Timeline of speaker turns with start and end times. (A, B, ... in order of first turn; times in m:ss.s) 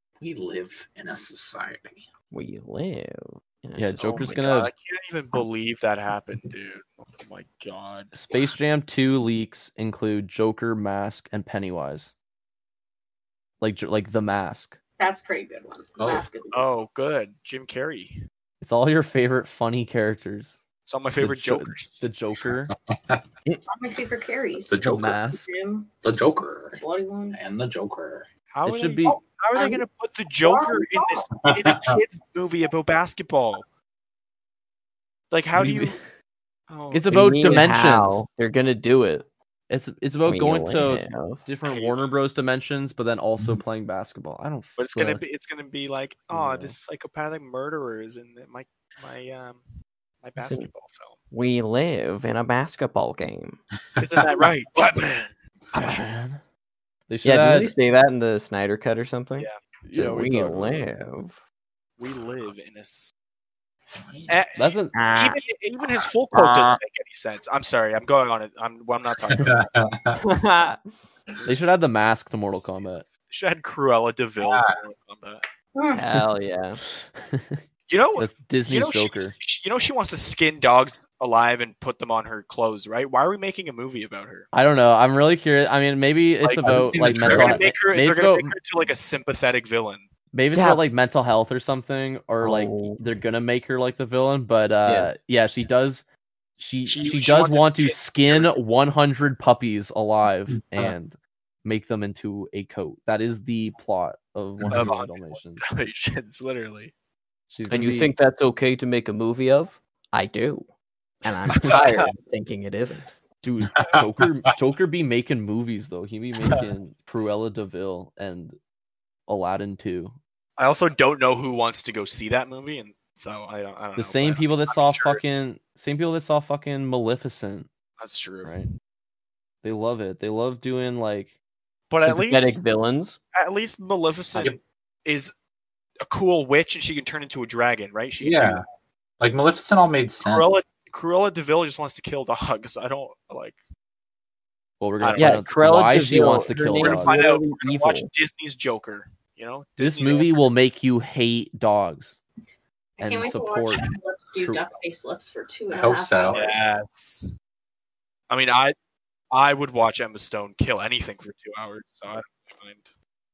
0:00.2-0:02.1 A
0:02.3-0:04.4 B
0:03.8-0:04.7 C
0:04.0-0:08.1 D
0:08.1-0:12.1 C
0:13.6-0:14.8 C
0:15.0-0:16.7 E
0:16.0-0:16.2 A
0:16.5-0:18.2 D
0:18.6-0:20.6 C
0:20.9-0:22.1 D
0:21.2-0:22.7 C
0:22.8-0:23.2 A
0:23.7-0:25.9 E
0:24.7-0:25.2 A
0:24.8-0:25.5 C
0:26.0-0:28.3 A
0:26.8-0:27.4 E
0:28.5-0:33.6 D
0:28.6-0:29.2 C
0:29.6-0:29.8 E
0:30.4-0:31.4 E
0:31.3-0:32.0 A
0:35.3-0:36.0 D
0:35.6-0:36.0 C
0:36.7-0:37.7 D
0:36.9-0:38.2 C
0:37.1-0:39.3 B
0:39.7-0:45.2 C
0:40.2-0:41.4 B
0:41.7-0:42.1 D
0:44.8-0:49.6 D
0:46.4-0:46.7 C
0:50.2-0:51.2 D
0:50.4-0:50.7 B
0:51.3-0:53.6 B
0:54.0-0:55.3 D
0:55.7-0:56.4 C
0:57.1-0:57.8 C
0:57.2-1:01.4 B
0:59.8-1:00.9 C
1:02.0-1:03.1 D
1:04.0-1:04.4 A
1:04.3-1:09.7 D
1:04.6-1:05.0 C
1:05.0-1:05.4 B
1:05.8-1:06.8 A
1:09.3-1:10.2 A
1:10.2-1:10.8 B
1:11.4-1:13.1 C
1:13.3-1:15.4 D
1:14.4-1:14.8 A
1:15.8-1:16.1 E
1:15.9-1:16.8 B
1:16.9-1:17.6 C
1:17.9-1:24.5 D
1:18.2-1:19.4 C
1:24.5-1:28.6 C
1:26.4-1:30.1 D
1:26.6-1:27.6 B
1:30.3-1:36.0 C
1:30.5-1:30.8 B
1:32.4-1:33.0 B
1:34.8-1:35.1 B
1:36.6-1:45.6 C
1:36.9-1:38.6 D
1:44.7-1:46.9 D
1:47.5-1:48.1 C
1:47.7-1:50.7 B
1:51.2-1:53.1 B
1:51.7-1:52.1 D
1:53.4-1:58.6 C
1:53.8-1:54.0 A
1:59.3-2:00.2 C
2:00.6-2:05.2 D
2:04.0-2:07.7 C
2:08.0-2:08.6 D
2:09.6-2:11.4 C
2:11.9-2:12.6 D
2:12.0-2:13.2 B
2:13.4-2:15.3 D
2:16.0-2:18.6 D
2:18.2-2:18.6 A
2:19.2-2:20.5 A
2:20.2-2:23.6 D
2:24.8-2:27.2 C
2:25.0-2:25.4 D
2:25.2-2:28.1 B
2:26.8-2:30.5 D
2:29.8-2:32.2 C
2:33.0-2:36.6 E
2:33.0-2:33.9 C
2:34.4-2:34.7 C
2:35.7-2:36.4 A
2:36.3-2:37.3 D
2:38.3-2:38.8 D
2:39.3-2:42.9 D